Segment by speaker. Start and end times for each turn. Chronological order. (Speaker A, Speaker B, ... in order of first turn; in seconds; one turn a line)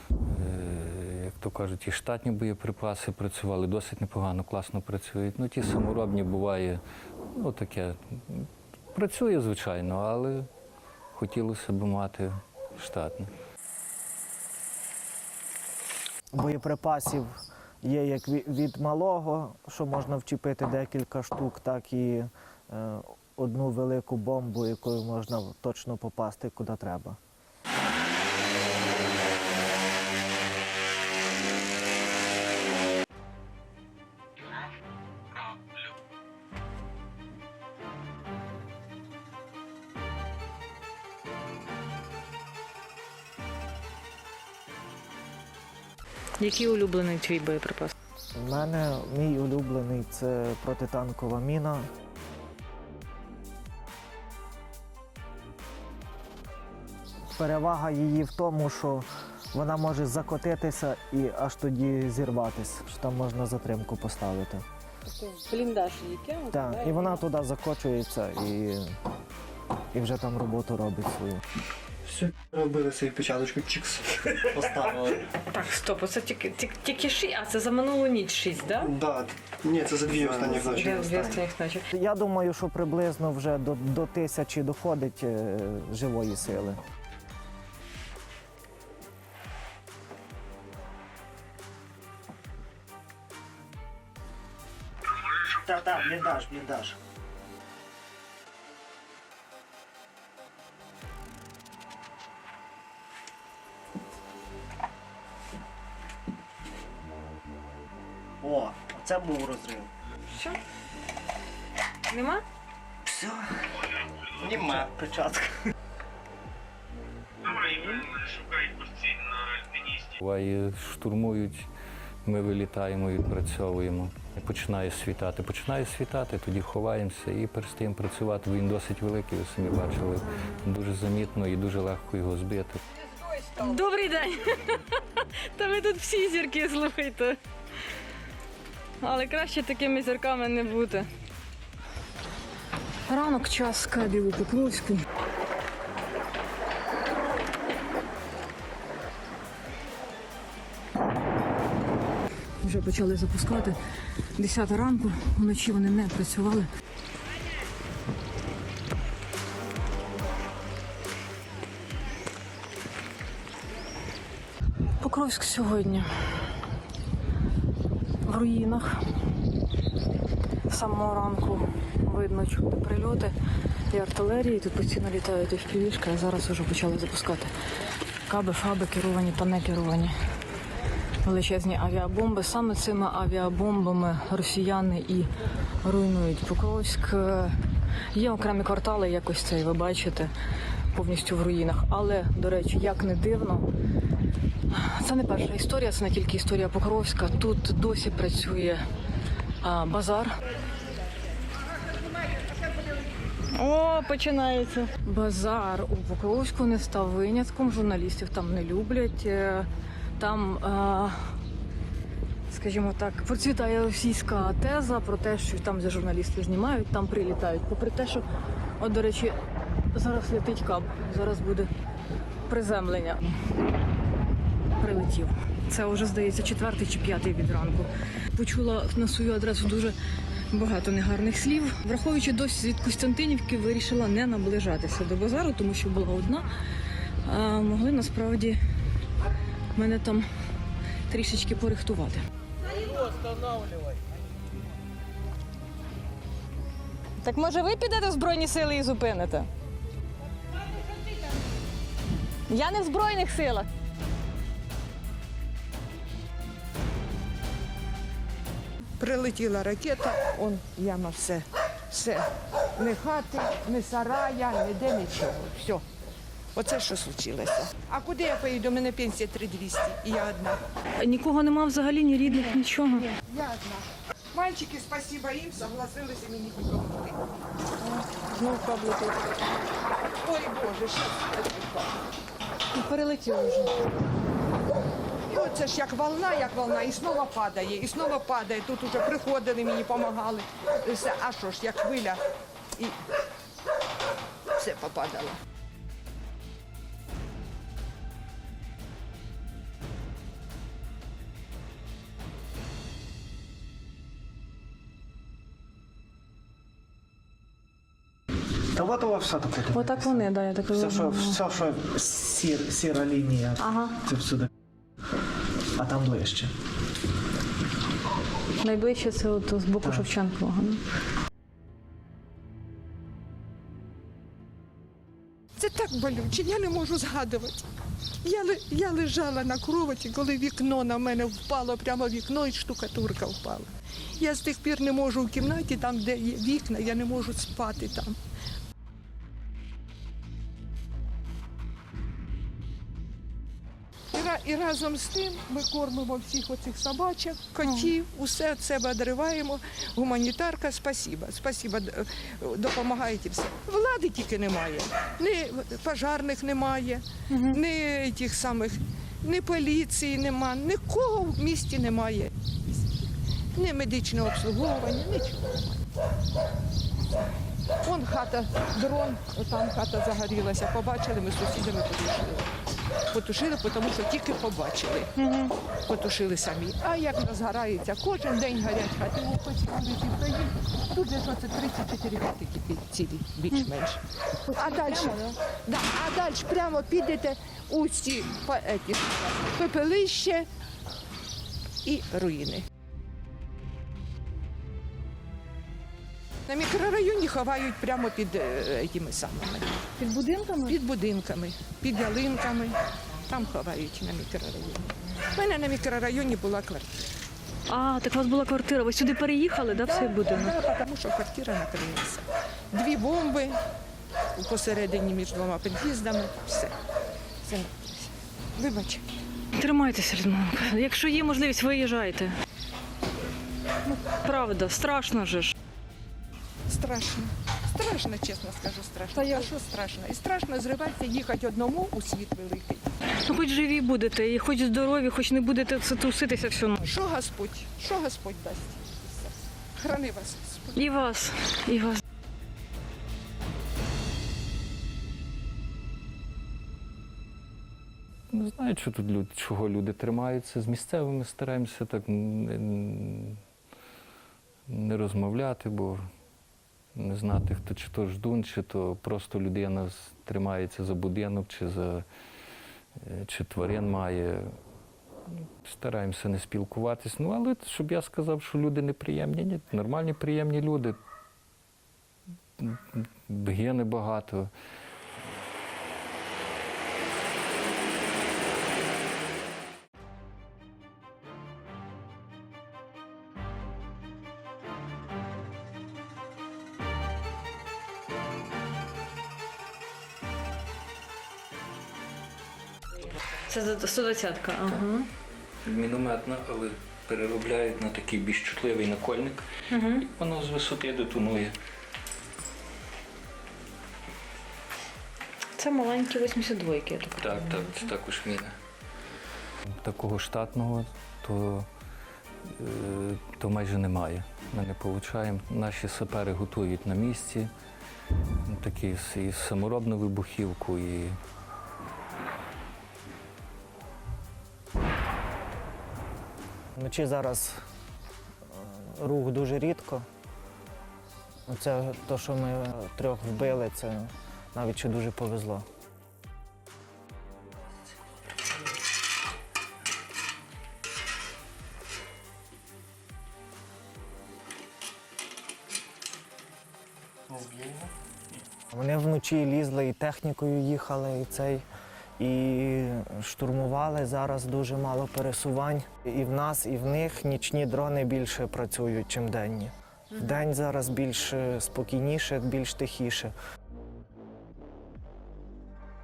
Speaker A: 0.3-6.8
Speaker A: 7.3-10.5
Speaker A: 11.1-13.3
Speaker B: 16.3-27.2
Speaker C: 46.4-47.9
Speaker B: 48.4-51.9
Speaker B: 57.3-64.6
Speaker C: 65.1-67.2
Speaker B: 66.5-68.9
Speaker B: 69.9-71.4
Speaker D: 72.1-75.2
Speaker C: 75.5-78.9
Speaker D: 78.8-81.4
Speaker B: 80.1-80.8
Speaker C: 80.7-81.8
Speaker B: 81.9-86.8
Speaker B: 95.5-97.0
Speaker B: 108.4-109.9
Speaker C: 110.3-110.6
Speaker C: 112.1-112.4
Speaker B: 113.0-113.5
Speaker B: 114.3-115.5
Speaker D: 114.6-114.8
Speaker C: 117.7-118.0
Speaker A: 120.2-121.7
Speaker A: 122.2-132.8
Speaker C: 133.6-137.4
Speaker C: 139.0-141.1
Speaker C: 143.1-145.0
Speaker C: 152.6-153.8
Speaker C: 154.3-156.7
Speaker C: 165.0-166.1
Speaker C: 168.2-169.0
Speaker C: 170.7-173.3
Speaker C: 173.9-177.5
Speaker C: 178.3-180.1
Speaker C: 181.2-185.3
Speaker C: 185.8-187.6
Speaker C: 188.1-190.3
Speaker C: 190.9-193.7
Speaker C: 194.7-198.8
Speaker C: 199.6-200.3
Speaker C: 203.5-211.2
Speaker C: 212.5-218.2
Speaker C: 218.8-219.3
Speaker C: 219.9-221.7
Speaker C: 222.5-223.3
Speaker C: 224.8-229.9
Speaker C: 230.5-236.5
Speaker C: 237.2-238.6
Speaker C: 239.7-240.2
Speaker C: 241.1-242.2
Speaker C: 247.2-249.5
Speaker C: 252.5-253.7
Speaker E: 259.0-265.8
Speaker E: 266.5-270.6
Speaker C: 271.0-273.1
Speaker E: 272.3-277.2
Speaker C: 277.8-279.2
Speaker E: 280.2-281.9
Speaker C: 282.7-283.8
Speaker E: 285.3-292.2
Speaker E: 294.6-295.4
Speaker B: 308.7-314.5
Speaker C: 309.7-311.4
Speaker C: 313.6-314.0
Speaker B: 315.8-316.5
Speaker C: 318.6-320.8
Speaker B: 319.8-320.1
Speaker E: 325.6-327.6
Speaker E: 328.2-338.2
Speaker E: 344.1-365.6
Speaker C: 347.6-347.9
Speaker C: 357.3-357.6
Speaker E: 367.8-372.5
Speaker E: 373.1-375.1
Speaker C: 375.1-375.5
Speaker E: 375.9-384.0
Speaker E: 384.5-390.4
Speaker C: 384.5-385.3
Speaker E: 391.8-392.6
Speaker E: 396.5-399.8
Speaker C: 400.0-400.8
Speaker E: 400.7-402.8
Speaker E: 403.3-406.9
Speaker C: 407.7-410.5
Speaker E: 409.8-413.6
Speaker E: 414.3-416.7
Speaker E: 417.4-419.0
Speaker C: 419.6-422.3
Speaker C: 423.9-425.5
Speaker E: 426.7-432.9
Speaker C: 429.1-429.5
Speaker C: 433.2-436.9
Speaker E: 436.8-440.8
Speaker C: 440.7-442.0
Speaker A: 448.3-453.4
Speaker A: 454.7-456.0
Speaker A: 456.9-462.0
Speaker A: 463.0-464.5
Speaker A: 465.6-470.9
Speaker A: 472.6-474.5
Speaker C: 493.5-495.1
Speaker A: 495.6-501.5
Speaker C: 499.7-500.0
Speaker C: 505.6-507.9
Speaker A: 507.2-508.5
Speaker A: 509.8-511.7
Speaker A: 512.5-517.5
Speaker A: 518.5-521.2
Speaker B: 526.8-527.6
Speaker B: 528.5-530.0
Speaker B: 531.5-535.7
Speaker D: 547.3-547.9
Speaker B: 548.7-551.6
Speaker B: 552.2-563.3